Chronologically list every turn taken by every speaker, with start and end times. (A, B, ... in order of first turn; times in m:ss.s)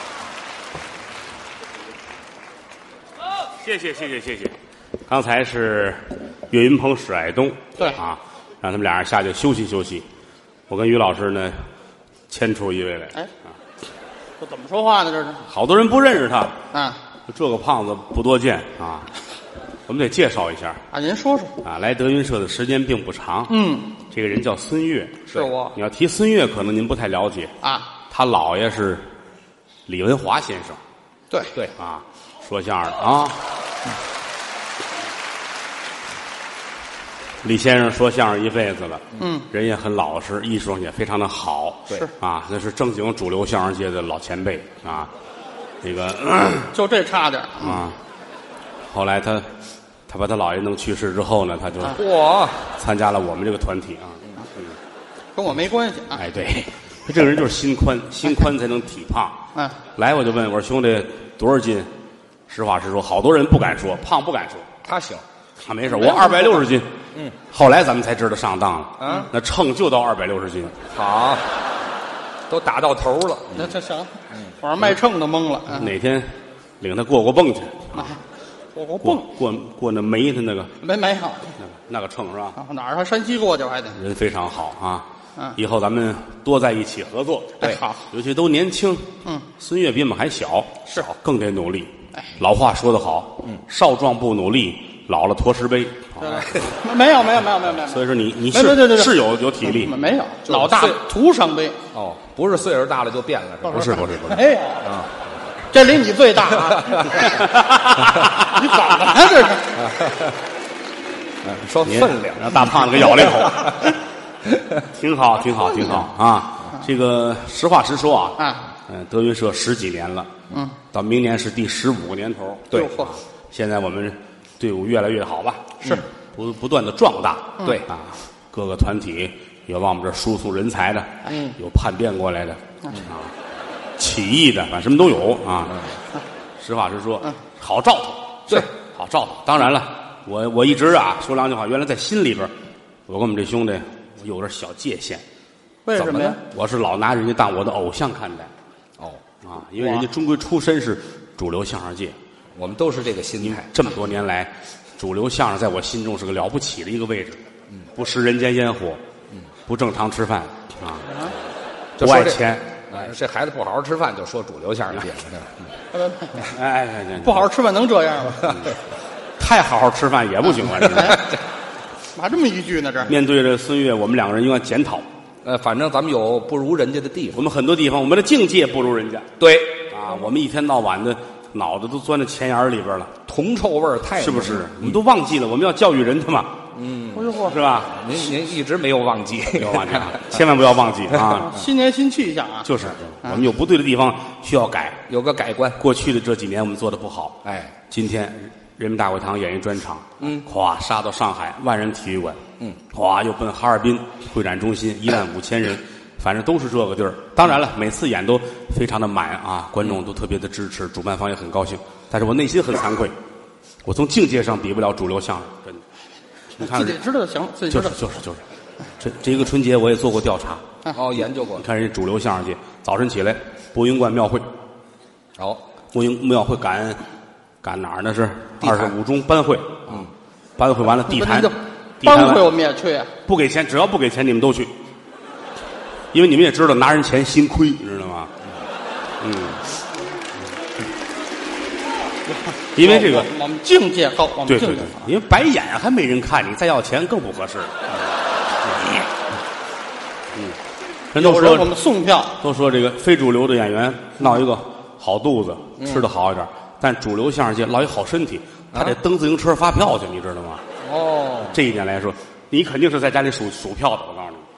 0:03.6-0:04.6 A
0:05.1-0:10.0 A
0:10.7-0:11.6 A
0:12.3-0:13.2 A
0:14.4-0:15.4 B
0:15.5-0:16.6 A
0:16.7-0:17.0 B
0:17.3-0:19.1 A
0:19.9-0:20.8 A
0:20.9-0:21.5 B
0:21.6-0:23.6 A
0:23.5-0:23.9 B
0:24.1-0:27.5 A
0:25.3-0:25.8 B
0:27.6-0:27.9 B
0:28.1-0:29.1 A
0:29.9-0:30.8 A
0:31.3-0:31.7 C
0:31.8-0:33.4 A
0:37.4-0:45.1 A
0:39.2-0:39.4 B
0:45.8-0:46.7 A
0:46.7-0:47.8 B
0:47.6-0:48.0 A
0:48.9-0:49.5 A
0:50.1-0:52.0 A
0:51.9-0:52.7 C
0:52.8-0:54.8 A
0:55.4-0:56.2 B
0:56.2-0:59.4 A
1:00.0-1:01.9 A
1:02.5-1:04.7 A
1:04.8-1:05.2 C
1:05.6-1:06.9 A
1:05.9-1:06.6 B
1:07.5-1:10.8 A
1:09.0-1:09.3 C
1:10.9-1:11.5 C
1:12.5-1:13.7 C
1:13.6-1:15.9 B
1:15.7-1:18.2 A
1:18.8-1:19.3 B
1:19.0-1:20.7 A
1:20.8-1:21.5 B
1:21.6-1:22.6 A
1:22.6-1:24.0 B
1:24.0-1:25.1 A
1:25.6-1:36.5 A
1:27.6-1:28.0 B
1:36.2-1:41.8 B
1:37.8-1:40.1 A
1:40.5-1:41.0 C
1:41.9-1:44.0 C
1:43.7-1:44.4 A
1:43.7-1:44.9 B
1:44.8-1:45.1 C
1:45.7-1:47.3 B
1:46.5-1:47.3 C
1:47.3-1:48.8 A
1:48.5-1:49.8 B
1:49.8-1:50.4 C
1:51.4-1:53.9 C
1:51.8-1:53.8 A
1:54.8-2:00.3 A
1:58.4-1:58.6 B
2:00.9-2:13.3 A
2:02.7-2:03.1 B
2:14.0-2:15.9 A
2:15.7-2:16.0 C
2:16.6-2:22.5 A
2:23.1-2:25.2 A
2:25.9-2:26.4 B
2:26.0-2:28.5 A
2:29.4-2:32.2 A
2:29.8-2:30.1 B
2:32.6-2:33.7 C
2:33.4-2:37.4 A
2:38.0-2:39.0 A
2:39.7-2:41.1 A
2:42.0-2:45.7 C
2:42.0-2:42.8 A
2:45.9-2:46.5 B
2:46.4-2:47.5 A
2:47.2-2:48.6 B
2:49.4-2:51.3 A
2:50.8-2:51.2 B
2:52.2-2:53.1 B
2:53.1-2:55.1 A
2:55.4-2:57.5 C
2:57.4-2:59.3 A
2:59.4-2:59.8 C
2:59.9-3:03.1 A
3:03.3-3:05.0 C
3:04.2-3:06.6 A
3:06.7-3:07.3 C
3:07.1-3:07.6 B
3:07.4-3:07.9 A
3:07.9-3:10.3 C
3:09.6-3:11.5 A
3:11.1-3:11.4 C
3:11.4-3:12.7 B
3:12.6-3:15.0 A
3:15.1-3:15.8 C
3:15.8-3:17.4 A
3:17.4-3:17.8 C
3:17.9-3:33.1 A
3:20.2-3:20.4 C
3:33.8-3:35.8 A
3:36.6-3:37.0 A
3:36.6-3:38.0 B
3:37.7-3:38.4 A
3:39.0-3:40.6 A
3:40.9-3:41.6 C
3:41.6-3:44.5 A
3:45.4-3:45.6 C
3:45.9-3:47.0 A
3:47.6-3:50.0 A
3:48.6-3:49.0 C
3:50.6-3:52.5 A
3:51.1-3:53.1 B
3:53.3-3:54.7 A
3:56.1-3:58.3 A
3:59.2-3:59.6 A
4:02.3-4:05.1 B
4:02.8-4:03.3 A
4:04.5-4:07.7 A
4:11.1-4:11.7 A
4:11.2-4:12.4 B
4:12.4-4:20.6 A
4:15.8-4:16.1 C
4:18.7-4:19.0 C
4:20.8-4:21.6 C
4:21.4-4:24.4 A